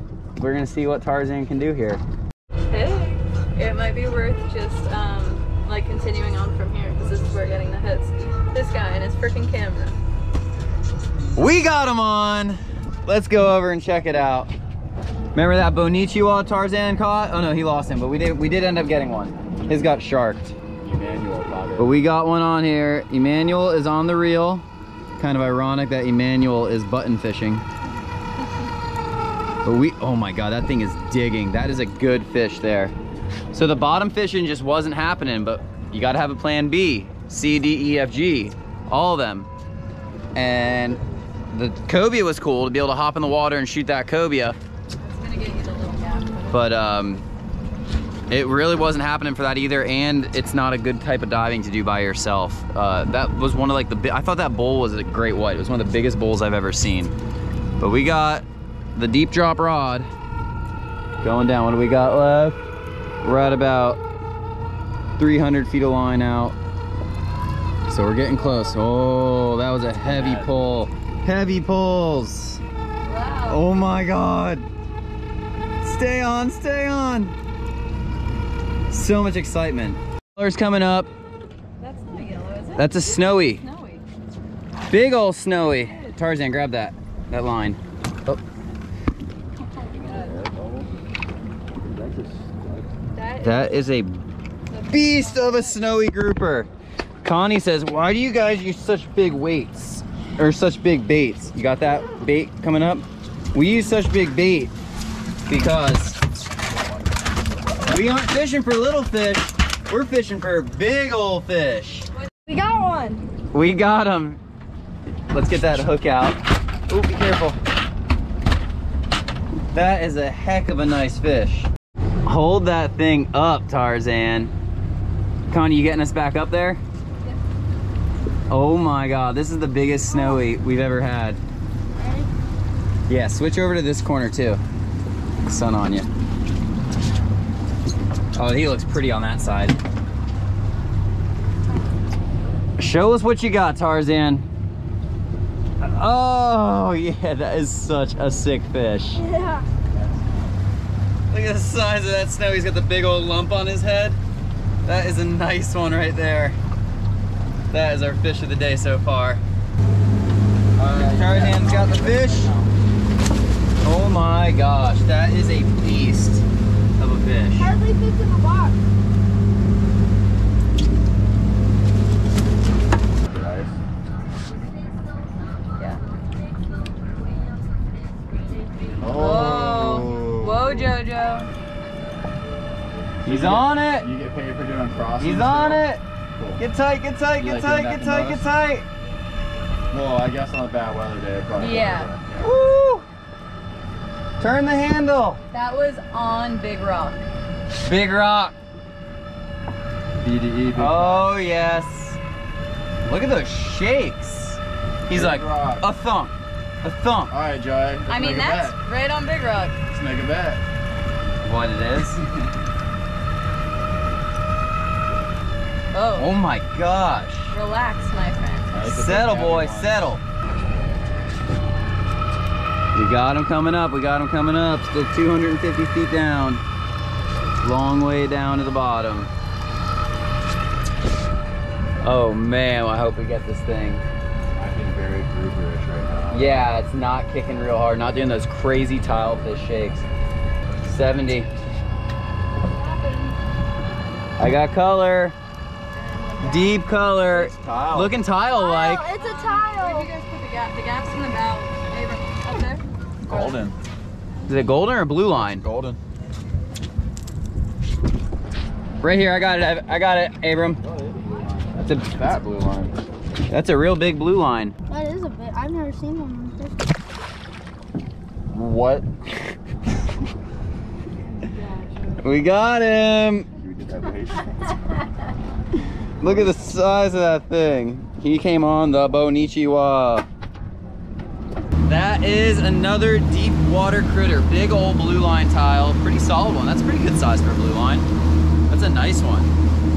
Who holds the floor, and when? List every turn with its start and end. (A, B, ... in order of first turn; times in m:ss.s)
0:00.4-0:02.0 A
0:02.7-0:10.0 B
0:11.4-0:14.5 A
0:15.3-0:20.6 A
0:20.8-0:21.9 C
0:21.8-0:24.6 A
0:25.2-0:27.6 A
0:29.6-0:32.9 A
0:33.5-0:39.5 A
0:40.4-0:44.6 A
0:45.0-0:46.7 B
0:46.5-0:47.2 A
0:48.3-0:57.1 A
0:57.8-0:58.4 A
0:59.0-1:00.1 A
1:01.2-1:02.6 A
1:03.2-1:04.0 A
1:05.2-1:06.6 A
1:07.9-1:12.6 A
1:10.0-1:10.6 C
1:13.0-1:13.7 B
1:13.5-1:14.7 A
1:15.8-1:17.4 A
1:18.9-1:21.1 A
1:21.8-1:24.0 B
1:22.8-1:23.6 A
1:24.9-1:28.4 A
1:25.5-1:26.2 B
1:29.6-1:30.4 B
1:30.0-1:30.9 C
1:31.8-1:32.9 C
1:33.1-1:33.8 B
1:33.4-1:34.2 A
1:34.7-1:35.8 B
1:34.9-1:36.7 A
1:37.2-1:44.7 A
1:45.5-1:46.2 A
1:47.9-1:52.1 A
1:52.5-1:53.3 D
1:53.5-1:54.4 A
1:55.3-1:57.6 A
1:59.7-2:01.7 A
2:02.2-2:04.5 A
2:05.5-2:06.8 A
2:08.5-2:11.4 A
2:10.1-2:10.4 D
2:12.0-2:12.3 D
2:13.1-2:14.6 A
2:15.4-2:16.1 A
2:18.4-2:19.8 A
2:22.8-2:24.5 A
2:25.8-2:29.2 A
2:29.2-2:29.6 D
2:31.3-2:34.2 A
2:34.8-2:36.6 A
2:37.7-2:39.4 A
2:40.8-2:42.7 C
2:41.1-2:42.6 A
2:43.8-2:46.4 A
2:47.0-2:47.7 A
2:47.6-2:48.8 D
2:53.2-2:53.8 C
2:59.0-3:01.0 C
2:59.0-3:01.5 B
3:03.2-3:04.1 A
3:03.2-3:06.6 C
3:05.2-3:06.0 A
3:06.6-3:08.9 A
3:07.3-3:08.5 C
3:09.9-3:12.5 C
3:11.6-3:12.1 B
3:12.4-3:13.1 A
3:14.4-3:15.4 A
3:15.5-3:17.2 B
3:17.8-3:18.6 A
3:20.2-3:21.3 C
3:20.8-3:22.2 A
3:23.0-3:27.3 A
3:25.1-3:25.8 C
3:27.3-3:28.8 C
3:28.1-3:29.8 B
3:29.9-3:30.6 C
3:31.4-3:32.2 A
3:35.9-3:36.3 B
3:36.2-3:37.6 A
3:37.5-3:38.8 B
3:38.7-3:40.0 C
3:38.8-3:40.2 A
3:43.0-3:46.6 A
3:47.6-3:49.3 A
3:52.0-3:54.0 A
3:54.5-3:56.6 C
3:56.3-4:00.1 A
4:00.8-4:01.5 A
4:02.8-4:03.4 B
4:04.4-4:05.4 A
4:05.9-4:06.8 B
4:06.4-4:09.1 A
4:07.2-4:08.2 C
4:08.5-4:10.1 D
4:09.2-4:13.7 B
4:13.3-4:13.7 C
4:14.5-4:15.6 A
4:15.3-4:16.0 C
4:19.0-4:20.8 A
4:20.8-4:23.0 C
4:21.8-4:22.3 A
4:23.5-4:24.7 A
4:24.9-4:26.8 D
4:28.5-4:29.1 C
4:32.2-4:33.5 A
4:33.6-4:34.7 C
4:36.2-4:40.3 A
4:36.2-4:36.5 C
4:41.9-4:48.1 A
4:48.7-4:49.5 A